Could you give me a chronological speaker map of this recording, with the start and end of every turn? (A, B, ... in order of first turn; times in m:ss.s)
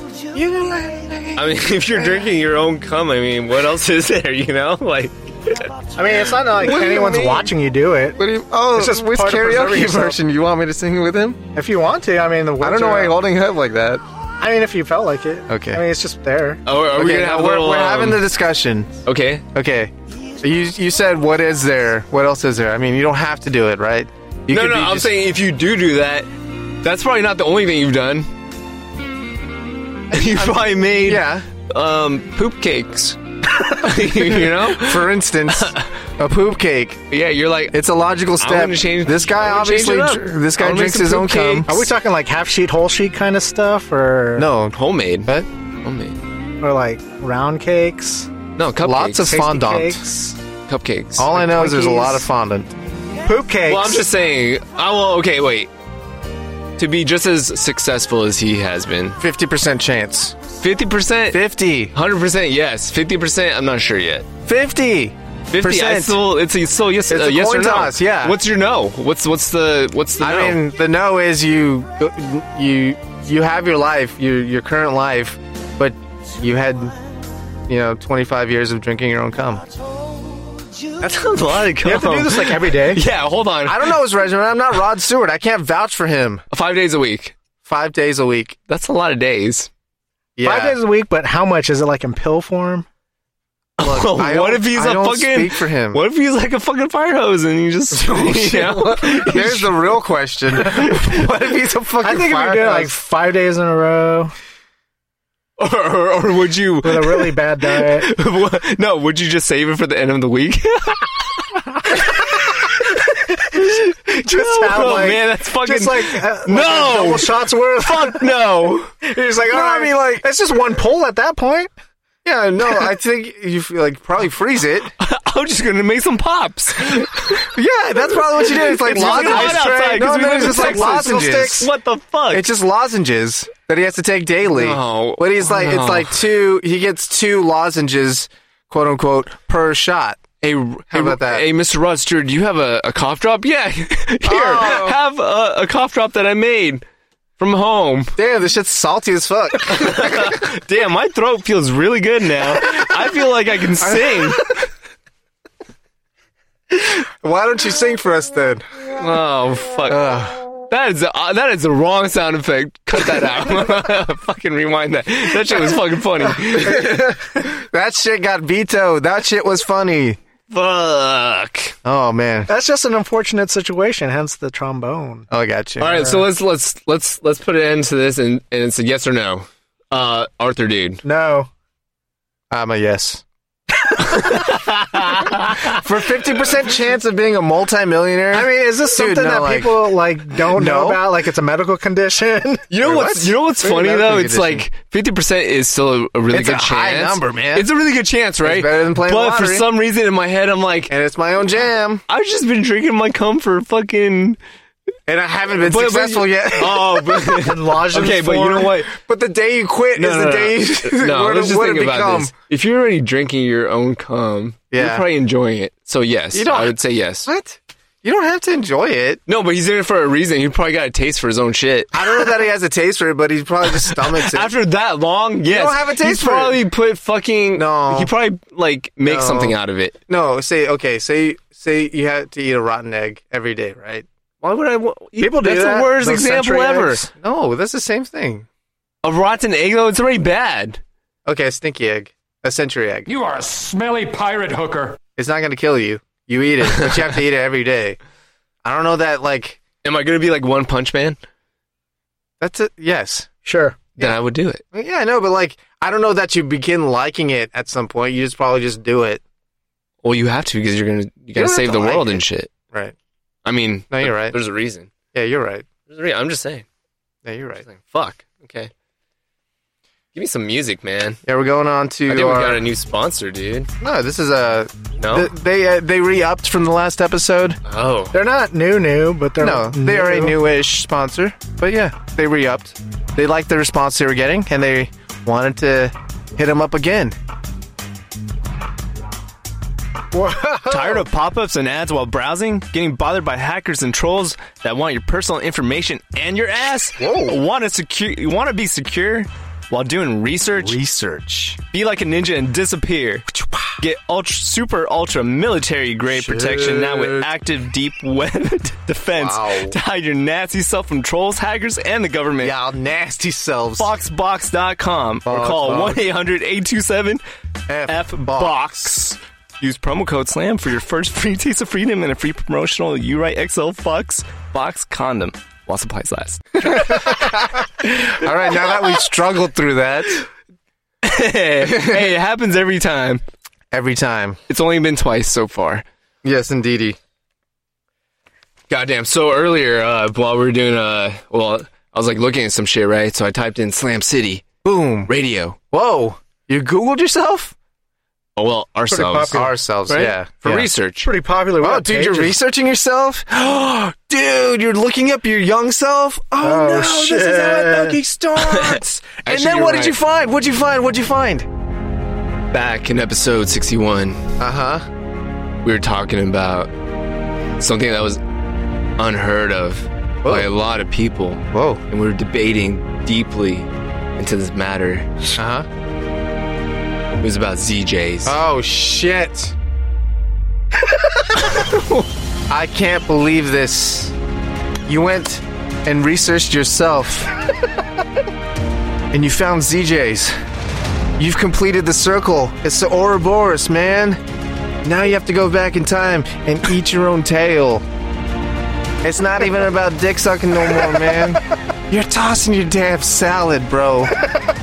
0:00.3-0:02.2 A
0:01.4-0:05.7 B
0:06.0-0:08.2 C
0:06.6-0:07.5 B
0:06.7-0:07.2 A
0:08.2-0:11.4 A
0:08.8-0:10.2 C
0:11.6-0:13.2 C
0:12.6-0:14.0 A
0:14.4-0:16.6 C
0:15.5-0:15.8 A
0:16.7-0:18.2 B
0:16.9-0:19.0 A
0:19.1-0:19.4 B
0:19.5-0:25.1 A
0:24.5-0:26.3 B
0:26.8-0:28.3 B
0:30.1-0:31.5 A
0:30.1-0:35.9 B
0:34.1-0:37.0 A
0:37.1-0:37.8 B
0:37.7-0:41.8 A
0:38.4-0:41.8 B
0:41.7-0:44.5 C
0:44.4-0:45.5 A
0:44.7-0:46.2 B
0:46.6-0:48.3 C
0:48.6-0:49.4 B
0:48.8-0:50.1 A
0:49.3-0:50.4 C
0:50.7-0:51.3 B
0:51.2-0:52.8 A
0:51.3-0:52.2 C
0:53.3-0:54.1 C
0:53.7-0:55.7 B
0:56.8-0:59.2 B
0:59.2-1:00.4 A
1:00.6-1:01.4 B
1:01.3-1:02.0 A
1:01.9-1:04.3 B
1:04.5-1:06.2 A
1:05.5-1:10.6 B
1:07.1-1:08.4 A
1:10.2-1:16.9 A
1:17.7-1:19.7 A
1:21.0-1:24.0 B
1:21.8-1:23.0 C
1:23.7-1:26.4 A
1:26.5-1:27.4 B
1:27.6-1:28.6 A
1:28.7-1:29.7 B
1:30.4-1:30.8 A
1:30.4-1:32.9 C
1:33.8-1:39.8 B
1:33.8-1:36.0 A
1:37.9-1:43.0 A
1:42.0-1:44.3 C
1:45.6-1:51.2 B
1:46.8-1:48.1 C
1:51.9-1:58.9 B
1:54.2-1:58.3 C
1:59.0-2:01.7 C
1:59.4-2:00.3 A
2:02.2-2:04.9 A
2:05.0-2:07.5 B
2:07.5-2:11.7 A
2:08.4-2:12.5 B
2:08.9-2:11.4 C
2:12.3-2:20.3 A
2:14.5-2:16.2 B
2:20.4-2:26.8 B
2:20.9-2:21.5 A
2:24.2-2:25.0 A
2:27.4-2:28.2 B
2:28.2-2:30.4 A
2:29.7-2:34.6 B
2:33.8-2:34.4 A
2:36.7-2:38.7 A
2:39.0-2:40.1 B
2:39.9-2:40.4 A
2:40.7-2:47.2 B
2:46.6-2:50.2 A
2:50.5-2:51.8 B
2:51.8-2:52.5 A
2:52.5-2:55.3 C
2:55.3-2:56.0 A
2:55.8-3:01.0 B
2:55.9-2:56.2 C
3:01.0-3:01.5 C
3:02.5-3:03.2 A
3:04.0-3:05.8 B
3:05.6-3:11.1 A
3:08.3-3:12.6 C
3:12.7-3:20.9 B
3:12.8-3:14.7 A
3:16.3-3:17.7 A
3:18.4-3:19.7 A
3:20.9-3:22.0 A
3:22.1-3:24.4 B
3:25.1-3:27.4 A
3:25.6-3:29.0 B
3:27.4-3:28.7 C
3:28.9-3:32.3 A
3:30.0-3:37.3 B
3:34.7-3:35.0 A
3:36.3-3:39.2 A
3:39.3-3:42.3 B
3:41.9-3:44.5 A
3:43.8-3:50.0 B
3:45.5-3:46.7 A
3:47.6-3:48.1 A
3:49.0-3:49.6 A
3:50.1-3:54.1 A
3:54.4-3:57.1 B
3:55.2-3:56.9 C
3:57.0-3:58.5 A
3:59.0-4:00.8 B
4:01.3-4:03.1 A
4:03.1-4:05.0 D
4:05.2-4:08.0 A
4:08.6-4:09.6 A
4:09.8-4:11.2 B
4:12.4-4:13.3 A
4:13.4-4:13.8 C
4:14.0-4:14.6 B
4:14.7-4:19.2 A
4:20.0-4:22.5 B
4:21.4-4:23.0 A
4:23.4-4:24.9 B
4:23.9-4:24.4 A
4:25.1-4:25.7 A
4:25.9-4:26.6 B
4:27.2-4:27.6 A
4:27.7-4:28.7 B
4:30.1-4:31.2 B
4:31.2-4:32.7 A
4:32.1-4:33.7 B
4:33.8-4:37.6 A
4:35.0-4:35.3 B
4:37.7-4:38.1 B
4:38.1-4:40.4 C
4:39.4-4:47.2 A
4:50.1-4:51.0 C
4:50.7-5:00.8 B
4:57.0-4:57.4 A
5:00.5-5:01.6 A
5:01.7-5:12.6 B
5:03.4-5:03.7 A
5:06.1-5:07.3 A
5:09.1-5:09.8 A
5:12.4-5:13.9 A
5:13.8-5:17.2 B
5:15.2-5:16.0 A
5:17.7-5:18.8 A
5:17.9-5:27.2 B
5:26.6-5:30.2 A
5:31.0-5:33.2 B
5:31.6-5:32.1 A
5:33.7-5:34.4 A
5:34.5-5:35.8 B
5:36.2-5:37.0 A
5:38.7-5:44.5 B
5:44.6-5:45.1 A
5:45.1-5:45.6 B
5:45.7-5:47.6 A
5:48.4-5:51.1 B
5:48.9-5:49.5 C
5:49.3-5:50.7 A
5:51.0-5:52.4 C
5:51.6-6:01.5 A
5:56.4-5:58.0 C
5:58.4-6:00.0 B
6:02.5-6:04.2 B
6:04.4-6:04.9 A
6:05.6-6:06.7 B
6:07.6-6:08.2 B
6:09.0-6:15.3 B
6:11.5-6:11.8 A
6:15.4-6:15.7 A
6:17.2-6:18.4 B
6:18.2-6:19.6 A
6:21.4-6:22.1 B
6:22.5-6:24.2 A
6:24.9-6:27.3 A
6:29.1-6:30.4 A
6:31.2-6:34.2 A
6:34.8-6:37.8 A
6:39.0-6:44.2 A